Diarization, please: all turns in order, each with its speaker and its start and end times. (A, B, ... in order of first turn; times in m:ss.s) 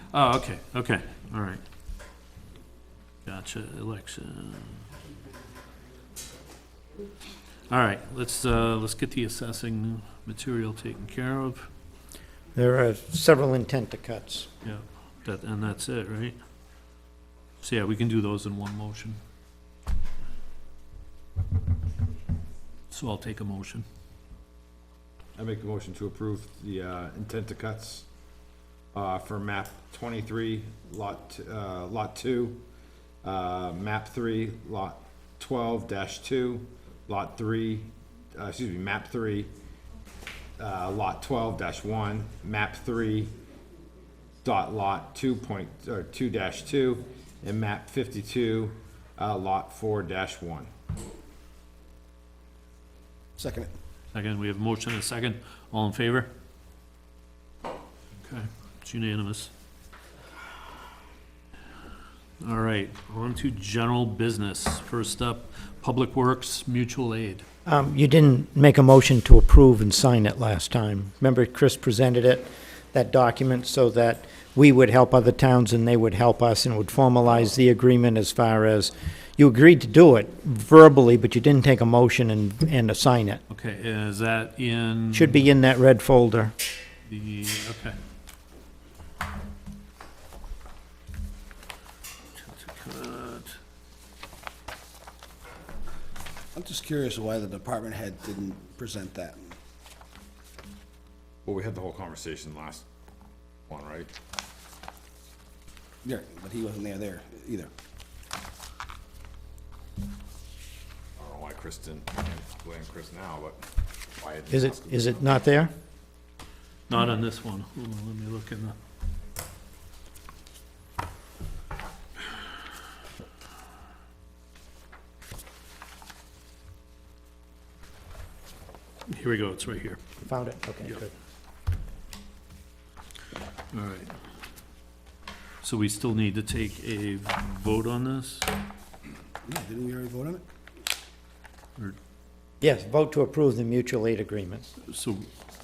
0:00.1-0:01.6 A
0:03.3-0:04.8 A
0:07.7-0:11.7 A
0:12.6-0:14.5 B
0:14.6-0:16.4 A
0:17.6-0:19.2 A
0:22.9-0:23.8 A
0:25.4-0:28.0 C
0:28.9-0:32.6 C
0:33.2-0:39.5 C
0:40.6-0:43.3 C
0:44.4-0:50.7 C
0:53.4-0:53.7 D
0:54.1-0:56.3 A
0:58.2-0:59.5 A
1:02.4-1:07.4 A
1:07.7-1:23.4 B
1:23.5-1:25.4 A
1:25.1-1:26.5 B
1:27.1-1:28.0 A
1:32.4-1:33.6 A
1:36.6-1:39.5 D
1:41.4-1:42.8 C
1:43.7-1:44.1 C
1:46.0-1:47.7 D
1:51.2-1:53.6 C
1:54.2-1:55.2 C
1:54.5-1:55.7 B
1:56.9-1:58.8 A
2:09.1-2:10.0 A
2:10.2-2:11.1 B
2:13.7-2:14.1 A
2:15.6-2:18.5 A
2:19.4-2:20.4 D
2:22.6-2:24.7 B
2:24.9-2:25.3 A